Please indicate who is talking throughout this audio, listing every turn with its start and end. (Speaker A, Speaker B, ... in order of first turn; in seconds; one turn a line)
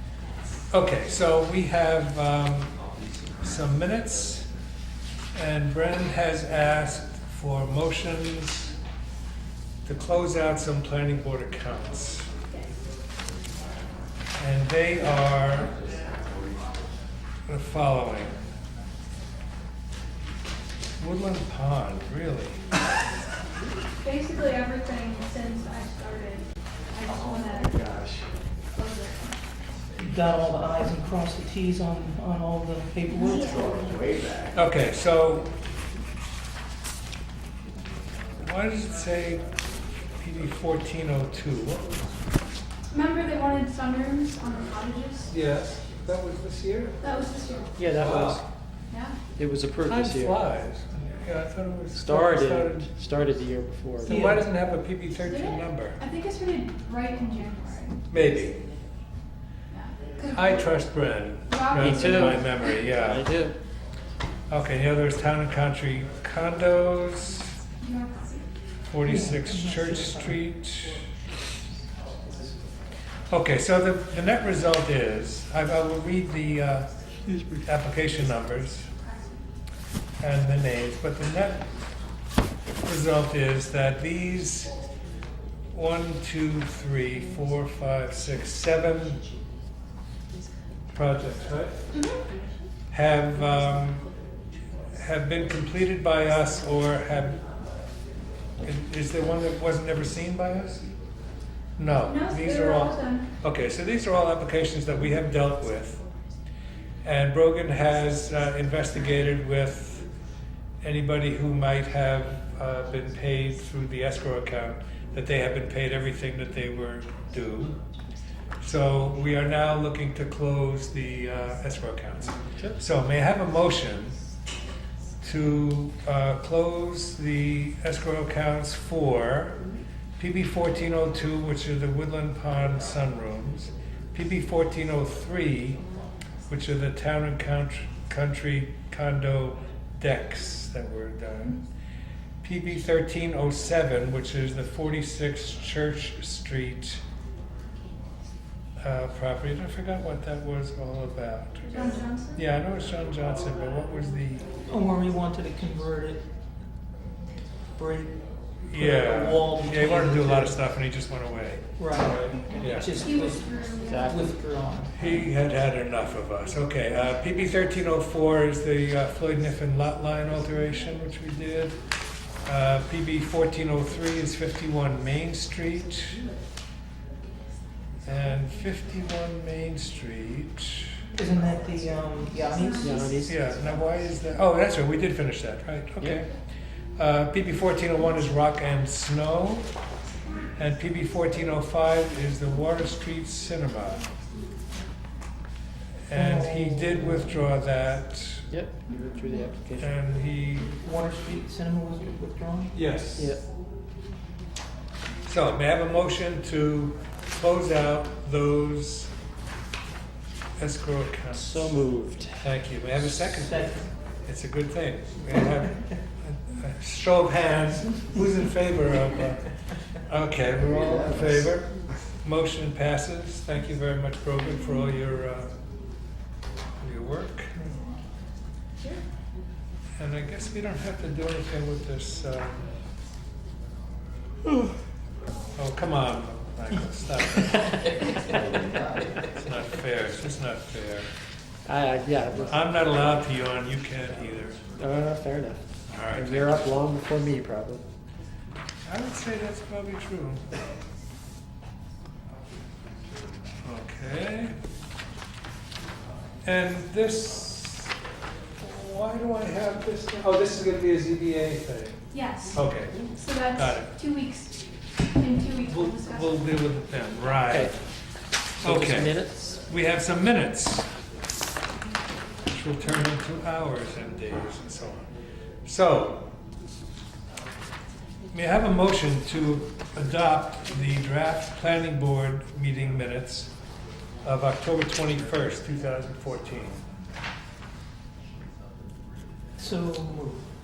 Speaker A: 0.7-2.8
Speaker A: 3.4-4.5
Speaker A: 5.3-8.7
Speaker A: 9.8-12.3
Speaker A: 14.4-15.7
Speaker A: 17.5-18.4
Speaker A: 21.0-22.6
Speaker B: 24.0-27.8
Speaker B: 28.7-29.4
Speaker C: 30.0-34.0
Speaker B: 33.1-33.9
Speaker A: 34.5-35.5
Speaker A: 38.4-39.4
Speaker A: 40.2-41.9
Speaker B: 42.9-45.3
Speaker A: 45.3-47.0
Speaker B: 47.0-47.8
Speaker D: 47.8-48.4
Speaker A: 47.9-48.4
Speaker B: 48.9-49.1
Speaker D: 49.4-50.4
Speaker A: 49.9-52.9
Speaker D: 51.9-54.2
Speaker A: 54.0-56.0
Speaker C: 54.0-54.4
Speaker B: 55.2-58.0
Speaker A: 58.1-58.6
Speaker B: 59.7-60.8
Speaker A: 60.3-63.3
Speaker B: 61.5-62.6
Speaker D: 61.8-63.5
Speaker A: 64.5-67.5
Speaker B: 67.8-68.5
Speaker A: 68.8-71.0
Speaker C: 69.0-70.4
Speaker A: 73.3-76.9
Speaker D: 77.3-77.6
Speaker A: 77.7-78.9
Speaker B: 79.0-79.4
Speaker A: 80.2-81.6
Speaker A: 82.8-84.7
Speaker A: 85.7-89.2
Speaker A: 90.9-91.8
Speaker B: 91.9-92.2
Speaker A: 92.9-94.0
Speaker A: 95.0-97.4
Speaker A: 98.6-100.9
Speaker A: 101.8-106.0
Speaker B: 102.0-103.3
Speaker A: 107.0-110.1
Speaker A: 110.8-117.8
Speaker A: 118.6-124.2
Speaker A: 125.2-129.6
Speaker A: 130.2-135.8
Speaker A: 136.5-141.6
Speaker A: 142.4-147.0
Speaker A: 148.8-154.5
Speaker B: 151.6-152.4
Speaker C: 154.7-156.2
Speaker C: 157.8-158.2
Speaker A: 158.7-161.6
Speaker C: 158.7-160.6
Speaker C: 161.8-165.2
Speaker A: 162.6-163.0
Speaker B: 163.0-164.2
Speaker D: 163.8-164.4
Speaker A: 164.9-171.8
Speaker A: 172.4-176.2
Speaker A: 178.0-181.0
Speaker C: 181.2-183.0
Speaker B: 182.5-183.2
Speaker D: 182.8-183.4
Speaker A: 183.2-186.3
Speaker A: 186.9-189.7
Speaker A: 190.6-194.1
Speaker A: 196.1-198.5
Speaker C: 196.1-197.5
Speaker D: 198.5-199.9
Speaker A: 199.8-200.7
Speaker C: 200.7-202.7
Speaker A: 202.7-203.3
Speaker D: 203.2-203.4
Speaker A: 205.2-209.1
Speaker A: 210.6-211.7
Speaker D: 211.3-212.4
Speaker A: 212.4-225.5
Speaker C: 213.3-213.9
Speaker A: 226.8-227.6
Speaker A: 230.0-232.6
Speaker A: 235.6-237.8
Speaker A: 239.2-241.1
Speaker D: 241.7-242.6
Speaker A: 242.5-244.6
Speaker D: 244.8-247.8
Speaker A: 245.9-246.7
Speaker A: 248.8-250.4
Speaker A: 253.6-254.5
Speaker A: 256.4-257.9
Speaker A: 258.6-263.0
Speaker B: 262.1-264.6
Speaker A: 263.5-263.9
Speaker B: 265.1-266.4
Speaker A: 265.6-267.7
Speaker D: 267.5-267.7
Speaker D: 268.6-269.6
Speaker A: 268.6-270.9
Speaker A: 272.4-275.1
Speaker A: 275.6-276.3
Speaker A: 278.3-283.5
Speaker A: 284.2-286.8
Speaker C: 289.6-290.4